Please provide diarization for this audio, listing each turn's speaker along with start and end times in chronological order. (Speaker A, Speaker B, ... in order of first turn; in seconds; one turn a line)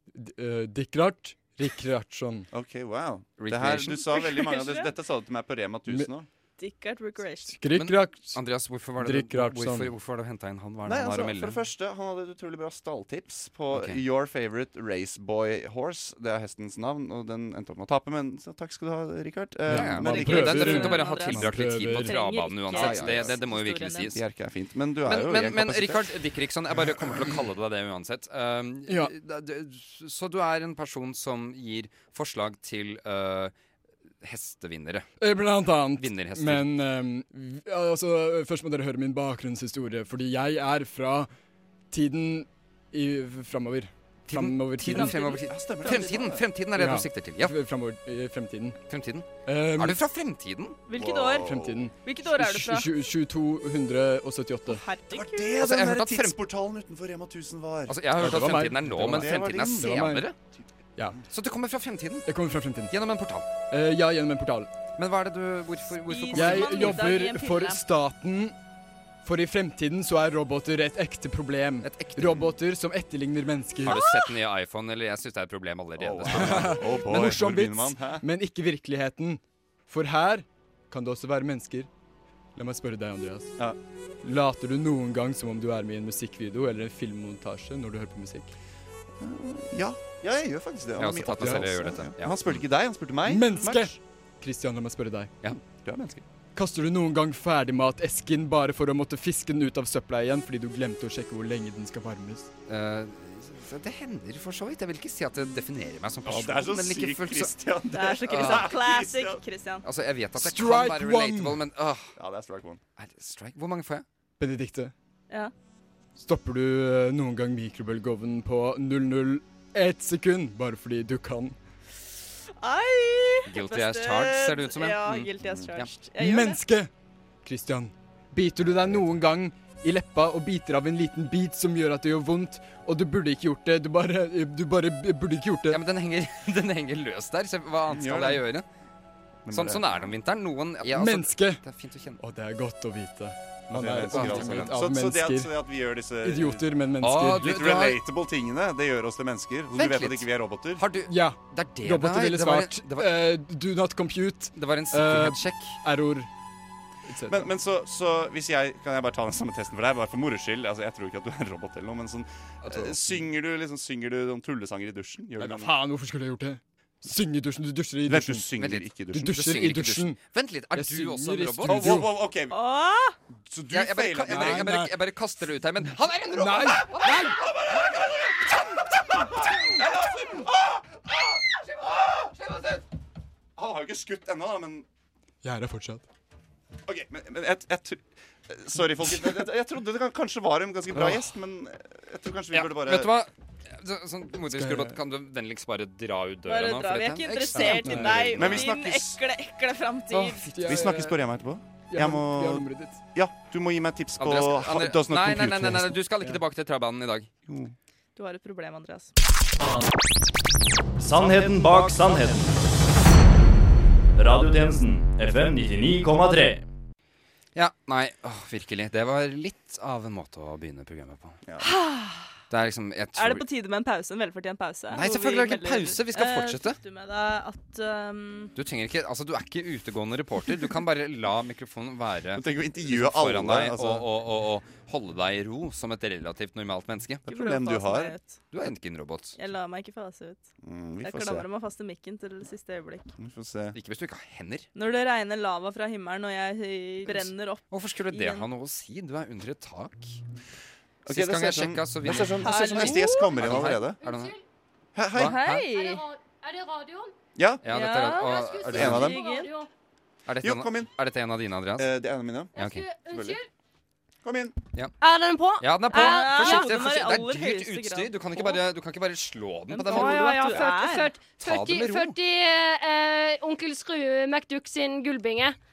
Speaker A: 0.2-2.5
Speaker B: 2.5-6.3
Speaker C: 3.4-4.3
Speaker D: 4.1-4.9
Speaker D: 6.6-7.6
Speaker A: 7.5-8.4
Speaker C: 7.7-11.6
Speaker A: 9.0-9.9
Speaker B: 10.8-20.6
Speaker C: 13.7-14.0
Speaker A: 19.7-22.2
Speaker C: 19.7-24.2
Speaker D: 20.0-24.1
Speaker B: 22.7-23.4
Speaker B: 24.1-26.1
Speaker C: 25.1-33.5
Speaker A: 28.9-29.1
Speaker C: 34.2-35.1
Speaker A: 35.2-41.3
Speaker C: 36.0-36.6
Speaker A: 41.9-45.3
Speaker C: 44.3-47.5
Speaker D: 44.9-46.4
Speaker B: 45.4-46.4
Speaker A: 46.7-48.8
Speaker C: 48.9-50.8
Speaker A: 49.5-50.0
Speaker D: 50.9-52.9
Speaker B: 50.9-51.9
Speaker A: 51.5-54.8
Speaker D: 54.7-55.6
Speaker B: 55.1-58.5
Speaker C: 55.6-56.4
Speaker C: 57.9-60.3
Speaker A: 58.2-60.2
Speaker B: 59.1-60.0
Speaker C: 61.3-62.3
Speaker A: 62.2-62.9
Speaker C: 62.9-63.5
Speaker A: 63.7-64.7
Speaker C: 65.0-67.1
Speaker D: 66.1-67.8
Speaker A: 66.3-68.5
Speaker A: 69.2-74.0
Speaker C: 71.8-72.5
Speaker C: 73.8-76.8
Speaker D: 73.9-74.3
Speaker B: 76.0-78.2
Speaker A: 76.3-81.9
Speaker A: 82.5-83.5
Speaker A: 84.2-88.5
Speaker B: 89.2-93.9
Speaker C: 91.0-92.6
Speaker A: 91.3-91.7
Speaker A: 93.2-95.3
Speaker B: 95.6-96.2
Speaker A: 96.5-102.5
Speaker C: 102.7-107.5
Speaker B: 106.2-109.4
Speaker D: 107.9-109.8
Speaker C: 108.2-108.7
Speaker C: 109.8-112.1
Speaker A: 110.3-111.6
Speaker B: 112.2-112.8
Speaker C: 113.0-114.0
Speaker A: 114.4-114.9
Speaker A: 116.2-121.6
Speaker D: 122.6-126.6
Speaker C: 123.5-125.9
Speaker A: 126.2-126.9
Speaker A: 127.4-135.8
Speaker C: 135.7-138.6
Speaker B: 137.9-138.4
Speaker B: 139.4-140.1
Speaker C: 139.5-142.2
Speaker A: 140.8-141.6
Speaker A: 142.2-145.5
Speaker B: 143.7-146.7
Speaker C: 144.1-144.7
Speaker A: 146.2-147.5
Speaker C: 147.0-148.0
Speaker B: 147.3-150.9
Speaker C: 149.7-150.3
Speaker C: 150.8-153.2
Speaker A: 151.1-156.3
Speaker C: 154.5-155.8
Speaker A: 157.1-157.5
Speaker B: 157.3-165.7
Speaker C: 162.6-163.2
Speaker A: 165.4-168.4
Speaker B: 168.1-169.5
Speaker C: 168.6-172.0
Speaker A: 169.1-170.2
Speaker A: 170.7-172.1
Speaker B: 171.6-172.6
Speaker D: 172.5-173.2
Speaker B: 173.4-174.7
Speaker C: 173.7-177.1
Speaker A: 174.3-174.9
Speaker A: 176.4-177.4
Speaker B: 177.0-182.8
Speaker B: 183.6-184.9
Speaker A: 185.4-186.0
Speaker B: 186.8-193.1
Speaker C: 192.5-198.7
Speaker A: 194.5-194.9
Speaker D: 196.4-200.5
Speaker A: 197.5-198.3
Speaker B: 198.2-199.2
Speaker B: 200.2-205.9
Speaker A: 200.5-201.2
Speaker A: 201.9-203.0
Speaker C: 204.2-207.3
Speaker B: 207.5-207.7
Speaker D: 208.2-209.1
Speaker E: 211.0-212.5
Speaker E: 214.2-216.6
Speaker C: 217.5-221.4
Speaker D: 221.6-222.3
Speaker C: 222.5-223.4
Speaker D: 223.2-228.5
Speaker C: 224.9-226.8
Speaker C: 228.6-237.2
Speaker B: 232.3-234.1
Speaker B: 237.2-238.2
Speaker D: 237.3-238.4
Speaker C: 238.5-239.3
Speaker D: 239.4-240.5
Speaker B: 240.6-241.5
Speaker D: 241.0-243.1
Speaker B: 243.2-243.8
Speaker C: 243.7-244.7
Speaker D: 244.7-248.5
Speaker C: 247.1-250.2
Speaker B: 251.1-254.0
Speaker C: 251.1-254.3
Speaker D: 252.4-253.7
Speaker F: 254.0-254.4
Speaker B: 254.9-255.3
Speaker C: 255.2-255.7
Speaker D: 255.2-256.0
Speaker F: 255.7-257.1
Speaker B: 257.4-257.6
Speaker C: 257.6-259.2
Speaker D: 257.7-258.4
Speaker F: 258.1-259.7
Speaker B: 258.7-259.2
Speaker D: 258.9-259.5
Speaker C: 260.2-261.9
Speaker B: 260.4-260.9
Speaker B: 261.8-262.5
Speaker F: 262.5-263.5
Speaker C: 262.6-262.9
Speaker B: 263.1-263.4
Speaker B: 264.2-264.6
Speaker F: 265.0-266.7
Speaker C: 265.6-270.7
Speaker D: 265.9-268.6
Speaker D: 269.7-271.1
Speaker F: 269.9-275.6
Speaker C: 271.4-272.1